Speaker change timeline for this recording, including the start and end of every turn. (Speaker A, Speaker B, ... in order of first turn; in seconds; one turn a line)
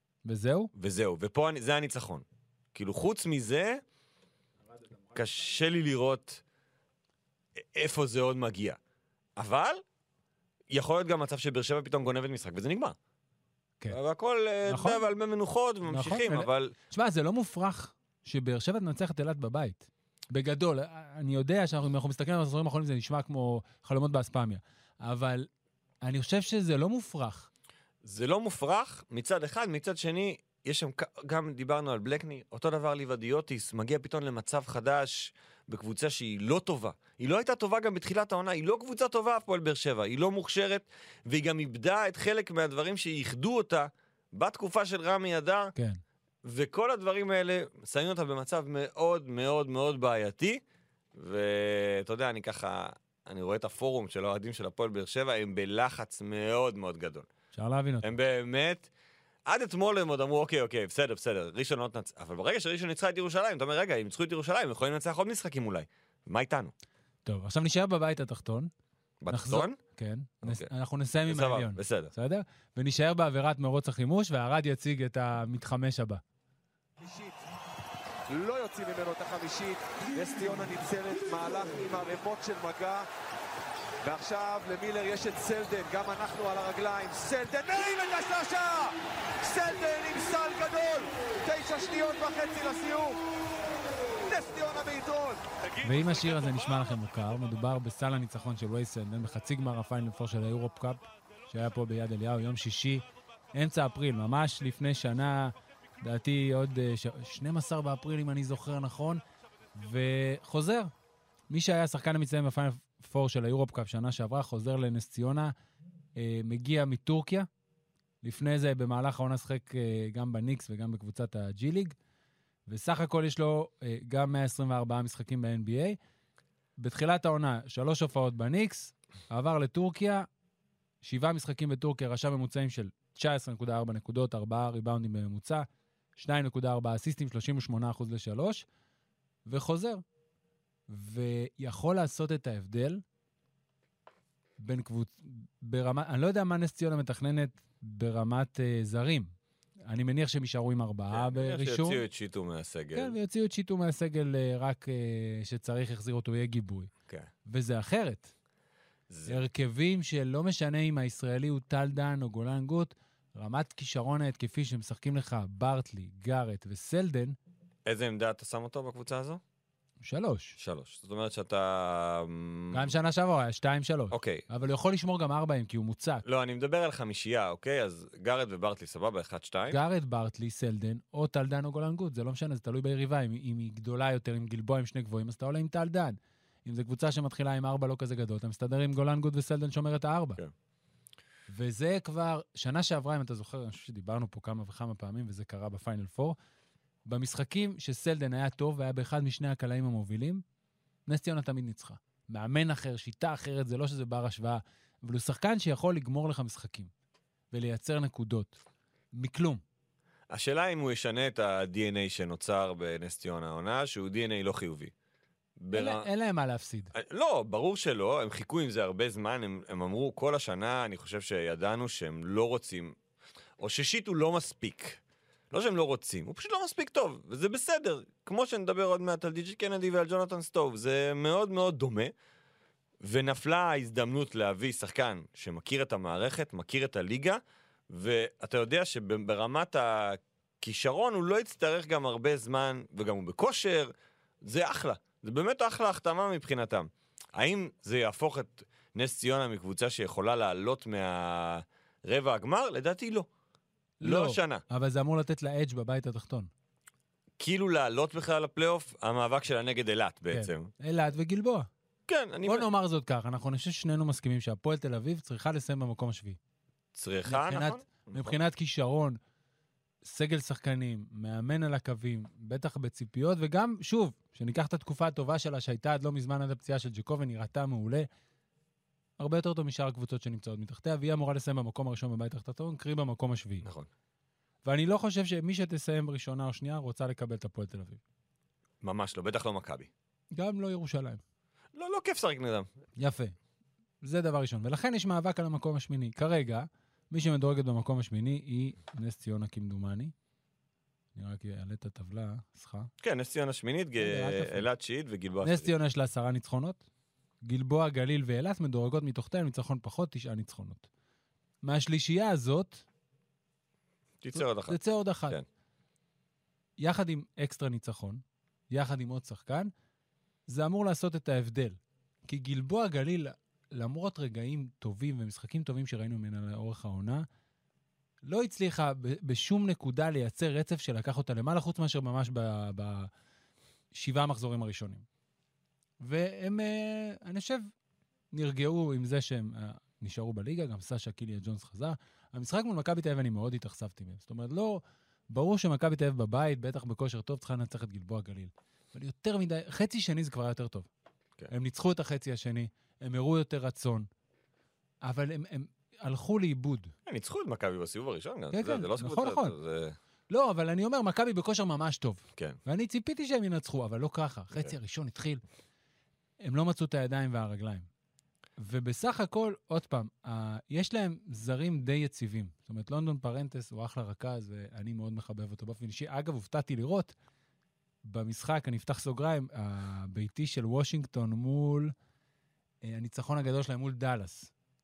Speaker A: 0.2-0.7
Speaker B: 0.8-3.8
Speaker B: 5.1-6.4
Speaker B: 7.6-8.8
Speaker B: 9.4-9.8
Speaker B: 10.7-13.0
Speaker B: 13.9-16.7
Speaker A: 14.7-15.0
Speaker A: 15.9-25.5
Speaker A: 26.0-27.5
Speaker B: 28.0-45.7
Speaker B: 46.4-50.6
Speaker B: 51.1-57.3
Speaker A: 57.5-58.2
Speaker B: 58.0-58.9
Speaker B: 59.5-66.7
Speaker A: 67.2-68.7
Speaker B: 69.2-69.8
Speaker A: 69.3-76.2
Speaker B: 70.4-70.7
Speaker B: 71.3-72.1
Speaker C: 77.0-77.4
Speaker C: 78.3-83.1
Speaker C: 84.0-93.2
Speaker C: 94.3-96.3
Speaker A: 95.8-109.2
Speaker A: 109.8-110.9
Speaker A: 111.5-115.5
Speaker A: 116.2-117.5
Speaker A: 118.2-122.0
Speaker A: 122.7-126.0
Speaker A: 126.8-130.3
Speaker A: 131.0-138.7
Speaker A: 139.5-140.0
Speaker A: 140.9-143.0
Speaker A: 144.6-149.3
Speaker A: 149.9-152.0
Speaker B: 151.1-153.2
Speaker A: 152.9-156.9
Speaker A: 157.5-158.3
Speaker B: 159.1-159.4
Speaker A: 159.3-167.4
Speaker B: 167.9-169.4
Speaker A: 170.0-170.6
Speaker B: 170.6-172.9
Speaker A: 172.7-176.2
Speaker B: 174.1-174.4
Speaker B: 176.2-179.8
Speaker A: 179.7-190.4
Speaker A: 191.5-196.4
Speaker A: 197.1-200.4
Speaker A: 201.1-206.9
Speaker A: 207.5-208.6
Speaker A: 209.2-209.6
Speaker B: 210.3-214.9
Speaker B: 215.6-216.1
Speaker A: 215.7-216.9
Speaker B: 216.9-223.0
Speaker B: 223.6-225.0
Speaker B: 225.5-232.1
Speaker B: 233.0-253.3
Speaker A: 254.0-256.5
Speaker B: 254.0-254.6
Speaker B: 257.4-260.7
Speaker A: 260.3-261.7
Speaker B: 262.1-262.7
Speaker A: 262.4-266.4
Speaker B: 266.9-268.4
Speaker A: 267.3-269.2
Speaker A: 270.0-278.1
Speaker A: 279.2-283.7
Speaker B: 283.6-283.9
Speaker A: 284.6-288.0
Speaker B: 288.8-289.9
Speaker A: 290.3-291.2
Speaker B: 291.8-292.7
Speaker A: 293.0-293.4
Speaker A: 294.0-300.1
Speaker A: 301.1-302.9
Speaker B: 303.0-305.7
Speaker A: 304.0-304.7
Speaker A: 305.4-306.8
Speaker A: 307.4-310.9
Speaker A: 311.6-312.8
Speaker B: 314.2-315.4
Speaker A: 314.3-315.4
Speaker A: 316.8-319.7
Speaker A: 320.5-327.2
Speaker A: 328.2-333.1
Speaker A: 333.9-335.1
Speaker A: 336.0-337.7
Speaker A: 338.3-350.9
Speaker A: 351.5-354.1
Speaker A: 355.0-356.9
Speaker B: 357.1-360.0
Speaker A: 358.5-359.6
Speaker A: 360.3-365.4
Speaker A: 366.4-367.9
Speaker A: 368.6-377.1
Speaker A: 378.0-381.9
Speaker A: 382.8-384.5